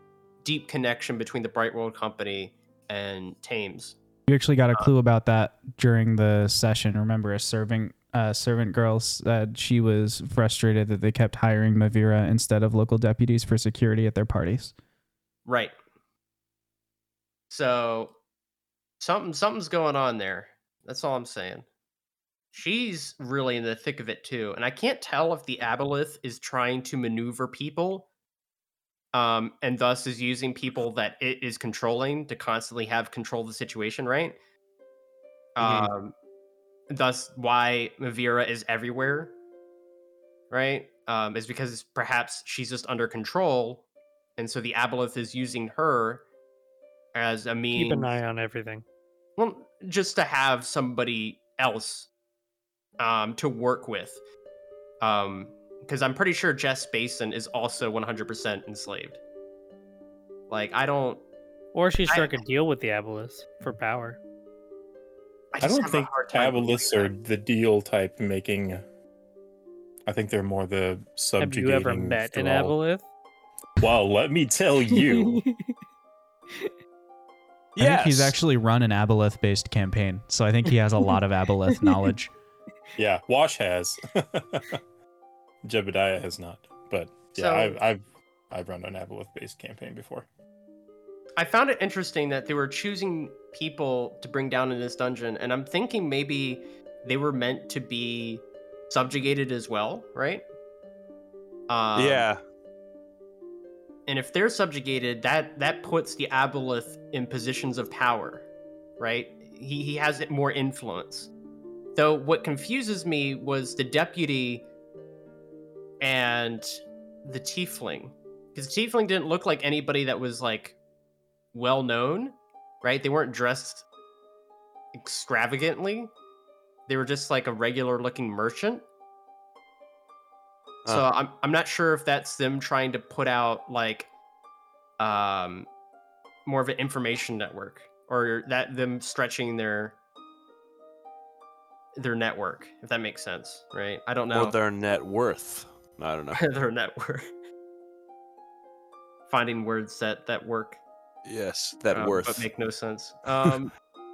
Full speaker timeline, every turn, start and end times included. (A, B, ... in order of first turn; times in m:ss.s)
0:00.4-0:04.0 A
0:04.3-0:14.7 B
0:15.5-0:15.7 A
0:17.5-0:18.1 A
0:19.0-0:21.6 A
0:22.5-0:28.1 A
0:29.1-0:34.4 A
0:35.6-0:36.1 A
0:35.6-0:35.9 C
0:36.9-0:39.3 A
0:40.5-0:43.8 A
0:44.4-0:46.2 A
0:47.1-0:48.1 A
0:47.8-0:48.8 D
0:49.4-0:52.1 A
0:53.0-0:54.2 A
0:55.0-0:59.2 A
1:00.5-1:01.2 A
1:01.7-1:04.2 D
1:02.1-1:02.4 A
1:05.5-1:07.1 A
1:05.6-1:08.8 E
1:10.1-1:12.8 E
1:11.4-1:13.0 D
1:13.8-1:15.4 E
1:14.9-1:15.8 D
1:17.8-1:18.4 C
1:17.8-1:22.3 B
1:21.7-1:22.1 D
1:23.0-1:24.8 E
1:25.6-1:30.3 E
1:27.4-1:27.8 A
1:31.4-1:40.4 A
1:41.7-1:42.3 A
1:42.0-1:42.4 C
1:44.1-1:48.4 A
1:49.0-1:51.3 A
1:52.0-1:54.7 A
1:56.0-2:00.8 A
2:01.5-2:03.9 A
2:05.0-2:06.1 A
2:06.9-2:08.8 A
2:10.9-2:14.1 A
2:15.0-2:15.7 A
2:16.5-2:20.0 A
2:22.0-2:24.6 A
2:24.3-2:26.4 C
2:26.4-2:27.3 A
2:29.3-2:30.8 A
2:31.2-2:32.5 C
2:31.9-2:33.7 A